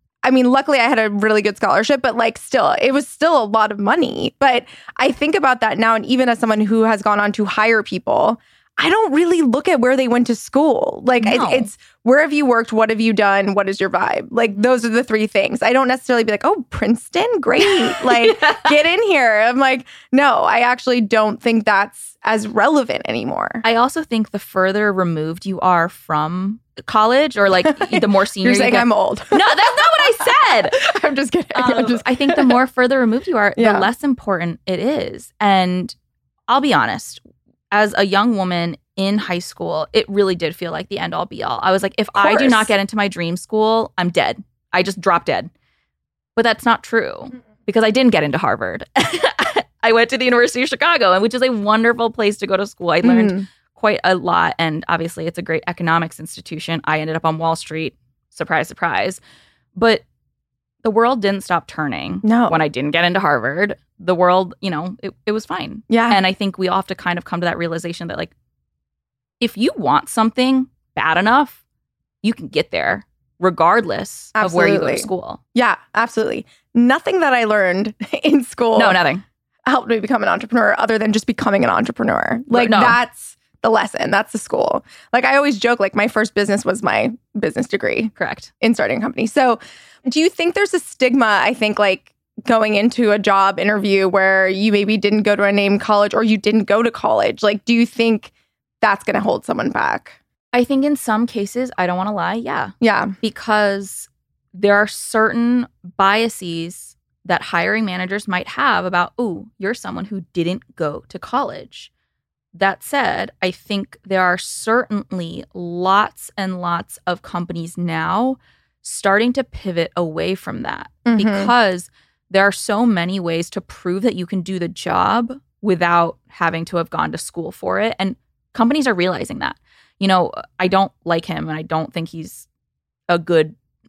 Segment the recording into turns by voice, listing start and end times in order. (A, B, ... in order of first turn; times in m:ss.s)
0:00.2-0:23.6 A
0:11.2-0:11.7 B
0:18.0-0:18.7 B
0:23.6-0:30.8 B
0:27.6-0:32.6 A
0:31.5-0:35.9 B
0:33.6-0:33.9 A
0:36.5-0:45.5 B
0:42.1-0:42.7 A
0:46.4-0:59.2 B
0:53.0-0:53.4 A
0:59.7-1:00.0 B
1:00.8-1:08.3 B
1:02.2-1:02.6 A
1:05.9-1:06.2 A
1:09.4-1:11.6 B
1:12.2-1:15.4 B
1:14.3-1:19.0 A
1:18.7-1:19.2 B
1:19.6-1:40.2 A
1:22.5-1:23.0 B
1:28.2-1:28.5 B
1:40.5-1:51.9 B
1:42.8-1:43.1 A
1:52.5-2:12.5 B
2:01.0-2:01.5 A
2:13.1-2:13.5 B